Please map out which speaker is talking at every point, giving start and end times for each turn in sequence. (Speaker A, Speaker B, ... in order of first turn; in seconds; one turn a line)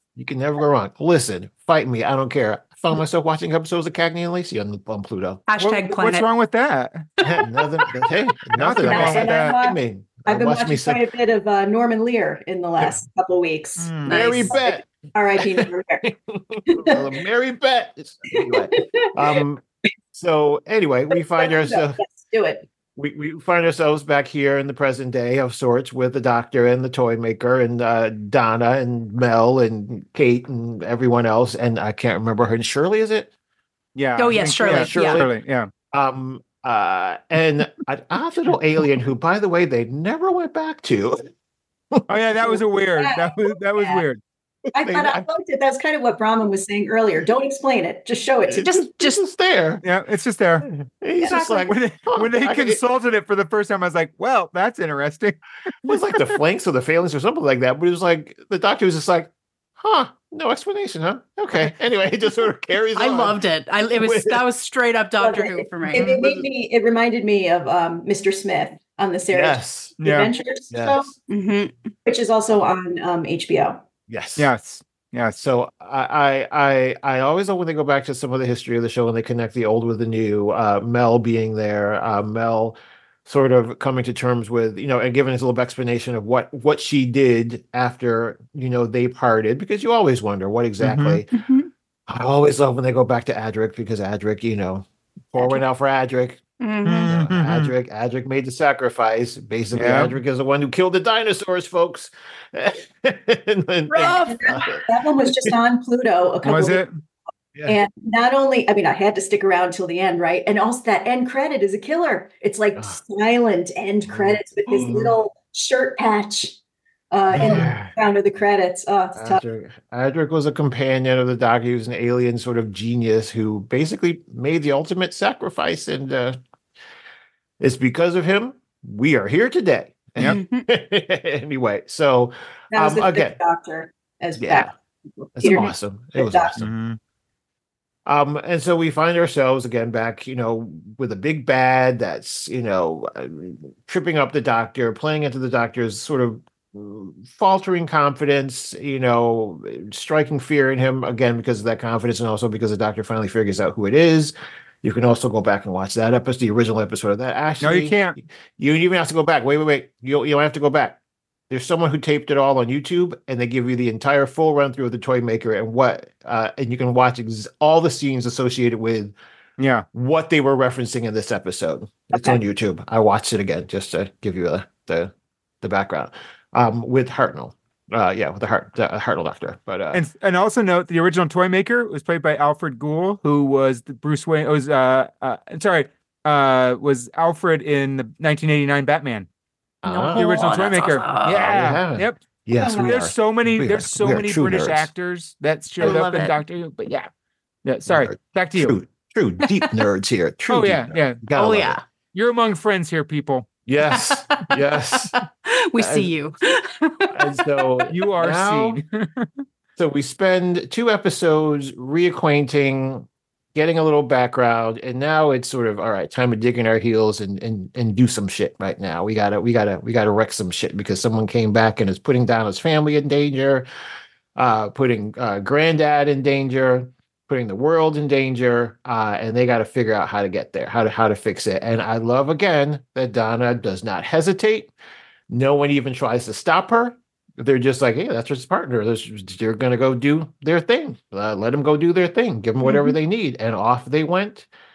Speaker A: 0.1-5.4
Speaker B: 5.5-6.2
Speaker C: 5.6-7.0
Speaker A: 7.2-11.0
Speaker C: 8.5-9.6
Speaker D: 8.8-16.0
Speaker C: 13.8-14.2
Speaker B: 14.1-14.6
Speaker A: 14.1-14.9
Speaker A: 15.4-19.6
Speaker D: 16.7-17.1
Speaker D: 18.3-19.4
Speaker A: 20.1-22.0
Speaker D: 21.4-22.7
Speaker A: 22.9-33.3
Speaker C: 34.0-35.7
Speaker B: 34.2-35.2
Speaker A: 34.3-35.3
Speaker A: 35.9-41.2
Speaker C: 42.1-44.2
Speaker D: 43.0-44.0
Speaker D: 44.7-48.7
Speaker A: 44.8-45.2
Speaker A: 48.5-49.8
Speaker B: 48.6-49.2
Speaker C: 49.8-50.7
Speaker A: 50.7-52.8
Speaker D: 51.2-51.7
Speaker C: 51.7-56.4
Speaker A: 55.9-63.4
Speaker B: 63.0-66.2
Speaker A: 64.0-64.4
Speaker D: 65.2-71.1
Speaker C: 65.9-66.2
Speaker A: 66.2-66.5
Speaker A: 69.3-70.0
Speaker C: 70.0-70.3
Speaker A: 70.7-71.1
Speaker B: 71.3-71.7
Speaker D: 72.0-73.8
Speaker A: 74.1-74.5
Speaker C: 74.4-75.4
Speaker A: 75.4-91.3
Speaker C: 90.8-91.2
Speaker B: 91.3-91.7
Speaker A: 92.1-96.4
Speaker B: 96.6-97.1
Speaker C: 96.8-97.7
Speaker A: 97.1-105.5
Speaker C: 99.7-100.1
Speaker B: 103.9-104.8
Speaker D: 104.0-106.8
Speaker C: 106.4-106.9
Speaker D: 107.7-116.6
Speaker A: 114.1-115.2
Speaker D: 117.1-119.4
Speaker A: 117.3-117.9
Speaker A: 119.2-126.4
Speaker A: 127.6-133.4
Speaker B: 130.2-130.7
Speaker D: 132.7-136.5
Speaker A: 134.4-134.7
Speaker A: 135.3-136.7
Speaker C: 136.6-137.0
Speaker A: 138.1-161.0
Speaker C: 157.6-158.1
Speaker A: 161.5-169.1
Speaker C: 169.6-169.8
Speaker A: 169.9-180.0
Speaker C: 179.9-189.3
Speaker A: 189.8-190.2
Speaker B: 189.8-191.6
Speaker C: 190.2-197.1
Speaker A: 191.3-194.9
Speaker D: 192.6-192.9
Speaker B: 195.8-196.3
Speaker C: 197.6-198.7
Speaker A: 197.9-201.8
Speaker C: 200.5-203.4
Speaker B: 201.4-201.8
Speaker A: 203.7-205.1
Speaker B: 203.8-207.3
Speaker A: 205.8-206.1
Speaker A: 207.1-208.8
Speaker C: 207.9-209.3
Speaker A: 209.8-223.7
Speaker A: 224.3-234.7
Speaker A: 235.3-244.5
Speaker B: 242.6-242.9